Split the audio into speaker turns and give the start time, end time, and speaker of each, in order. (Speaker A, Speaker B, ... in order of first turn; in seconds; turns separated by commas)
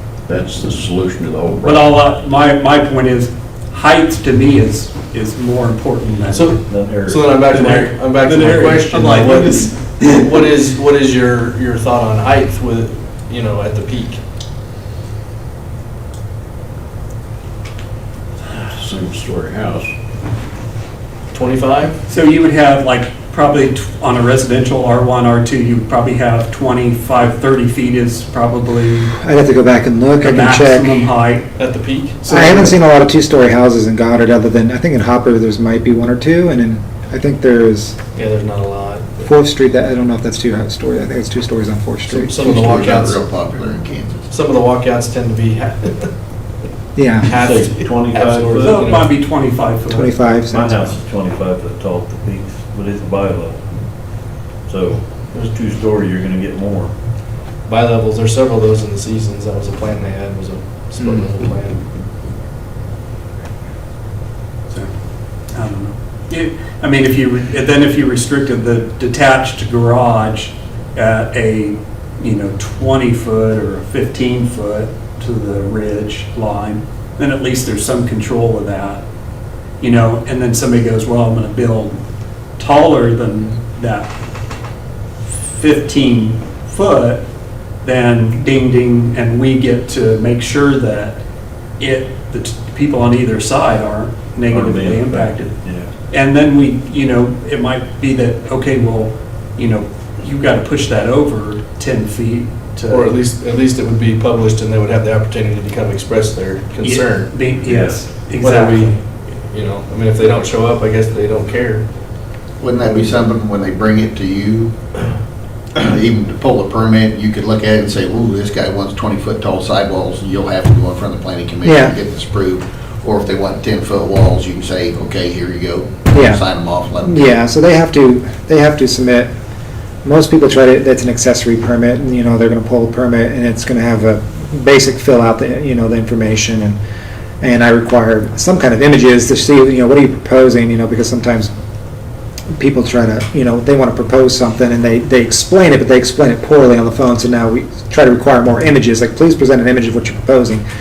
Speaker A: 0.3-2.0, Speaker B: 1.6-6.9, Speaker C: 6.3-14.2, Speaker D: 6.7-7.4, Speaker B: 7.5-10.4, Speaker A: 18.5-19.9, Speaker C: 21.3-22.0, Speaker B: 22.1-29.1, Speaker E: 29.1-31.1, Speaker B: 30.2-31.5, Speaker C: 31.6-32.4, Speaker B: 32.2-32.7, Speaker E: 32.3-38.0, Speaker C: 38.1-39.3, Speaker E: 39.2-42.4, Speaker C: 42.1-43.3, Speaker F: 42.4-44.3, Speaker C: 44.3-46.1, Speaker E: 46.9-47.3, Speaker C: 47.2-49.2, Speaker D: 47.2-48.8, Speaker B: 48.6-50.1, Speaker E: 49.9-51.0, Speaker D: 50.5-53.6, Speaker D: 54.6-56.9, Speaker C: 57.6-61.9, Speaker B: 65.5-79.0, Speaker B: 79.8-82.0, Speaker B: 82.6-84.1, Speaker B: 85.2-87.2, Speaker B: 87.8-91.2, Speaker B: 91.8-95.6, Speaker D: 94.5-95.9, Speaker B: 96.1-103.1, Speaker C: 102.9-107.4, Speaker B: 106.8-109.0, Speaker D: 107.5-108.1, Speaker C: 108.4-112.2, Speaker F: 112.6-114.8, Speaker C: 112.9-113.2, Speaker F: 115.8-127.2, Speaker E: 121.6-122.0, Speaker E: 126.1-126.4, Speaker E: 127.0-129.3, Speaker E: 130.0-136.8, Speaker E: 137.4-141.5, Speaker E: 142.5-150.6